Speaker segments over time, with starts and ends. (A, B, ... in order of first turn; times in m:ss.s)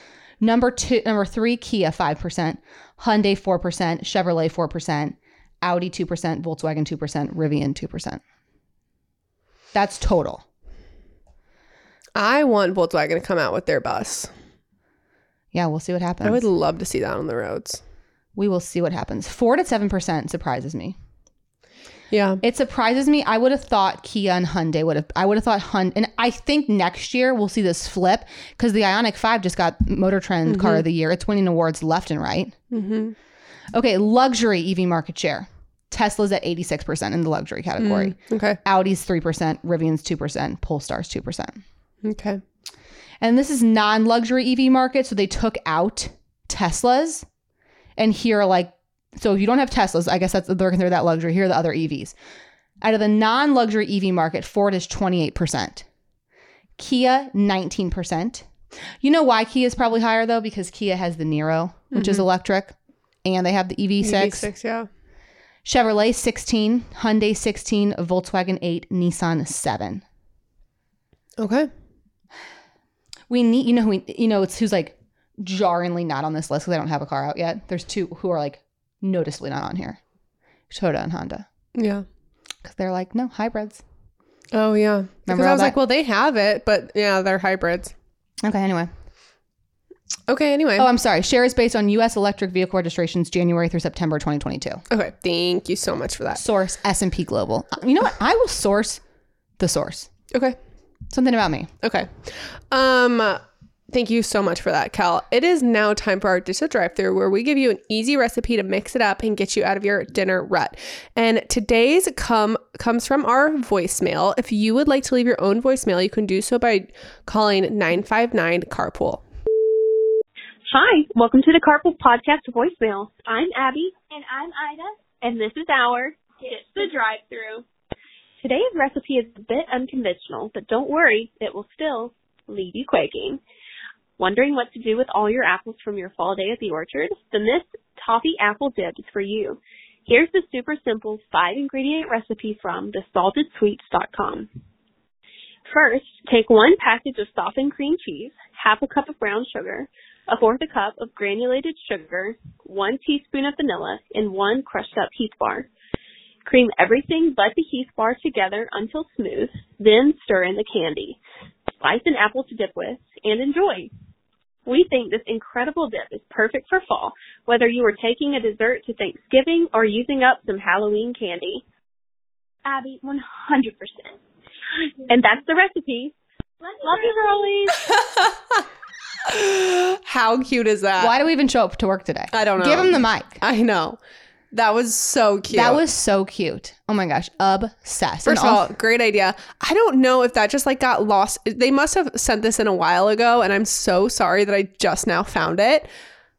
0:00.4-0:08.2 A
0:09.7-0:10.4 A
0:12.2-0:14.3 B
0:15.5-0:16.4 A
0:16.2-0:17.8 B
0:18.4-0:21.0 A
0:22.1-0:22.4 B
0:22.4-0:32.5 A
0:30.4-0:30.8 B
0:32.7-0:33.1 B
0:33.7-0:41.6 A
0:37.8-0:38.6 B
0:42.0-0:42.4 B
0:43.2-0:47.2 A
0:48.0-0:52.1 A
0:52.8-0:55.8 A
0:56.8-0:58.4 A
0:59.0-1:04.5 A
1:01.9-1:02.2 B
1:04.0-1:04.9 B
1:05.6-1:10.0 A
1:11.4-1:11.7 B
1:13.3-1:20.0 A
1:20.7-1:21.4 A
1:21.7-1:22.0 B
1:22.6-1:23.8 A
1:24.5-1:27.9 B
1:25.3-1:25.8 A
1:28.4-1:28.9 A
1:30.3-1:30.9 B
1:30.8-1:34.8 A
1:34.9-1:36.4 B
1:36.3-1:39.0 A
1:39.6-1:40.1 A
1:40.3-1:40.6 B
1:41.1-1:41.7 A
1:41.8-1:59.2 B
2:00.7-2:07.6 C
2:08.4-2:13.4 C
2:14.2-2:24.5 C
2:25.7-2:35.7 C
2:36.4-2:41.2 C
2:41.8-2:43.9 C
2:44.6-2:51.6 C
2:52.6-2:54.1 C
2:55.1-2:56.1 C
2:56.8-2:57.8 C
2:58.0-2:58.6 B
2:59.2-3:01.1 B
3:01.0-3:03.4 A
3:02.3-3:04.0 B
3:04.5-3:05.8 B
3:05.5-3:08.7 A
3:08.2-3:15.9 B